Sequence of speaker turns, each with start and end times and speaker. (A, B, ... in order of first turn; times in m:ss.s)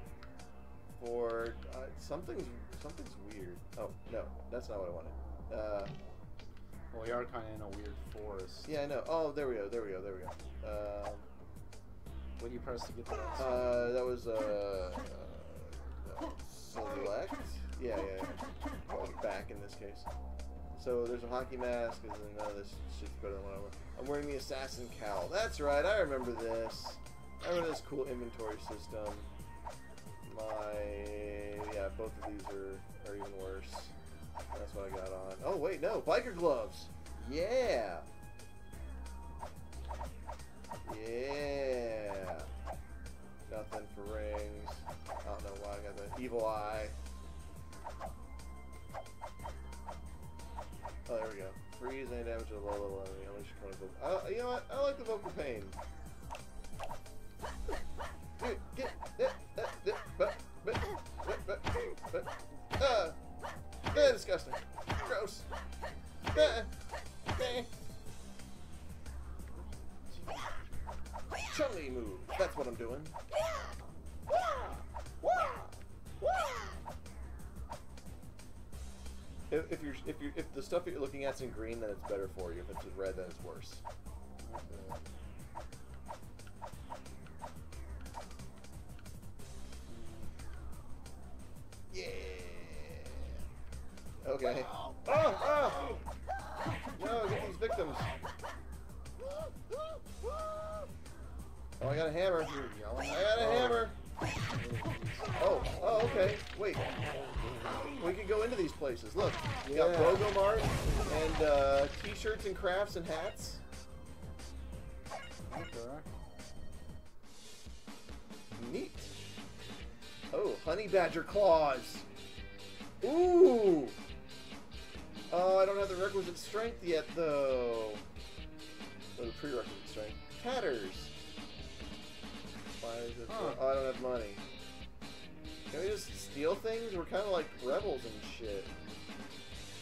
0:01.0-0:05.9 A
0:06.9-0:08.7 B
0:08.6-0:11.3 A
0:12.4-0:14.0 B
0:13.4-0:20.1 A
0:20.8-0:29.3 A
0:30.2-0:34.0 A
0:34.5-0:38.1 A
0:40.8-0:42.5 A
0:43.5-0:47.0 A
0:51.1-0:55.8 A
0:58.4-1:03.2 A
1:03.9-1:05.5 A
1:06.3-1:06.7 A
1:07.4-1:07.7 A
1:09.5-1:10.4 B
1:11.5-1:13.2 A
1:15.2-1:16.6 A
1:19.5-1:23.8 A
1:24.4-1:25.0 B
1:29.9-1:30.3 B
1:31.9-1:33.4 A
1:34.2-1:35.9 A
1:37.0-1:38.2 A
1:41.8-1:44.0 A
1:42.4-1:44.0 B
1:44.6-1:46.3 B
1:45.4-1:46.8 A
1:48.0-1:53.6 A
1:49.6-1:50.3 B
1:55.5-1:56.1 B
1:58.6-1:59.1 A
2:00.3-2:02.1 A
2:03.0-2:04.0 A
2:05.3-2:08.0 A
2:09.2-2:11.1 A
2:12.8-2:14.4 A
2:13.3-2:13.6 B
2:15.7-2:18.7 A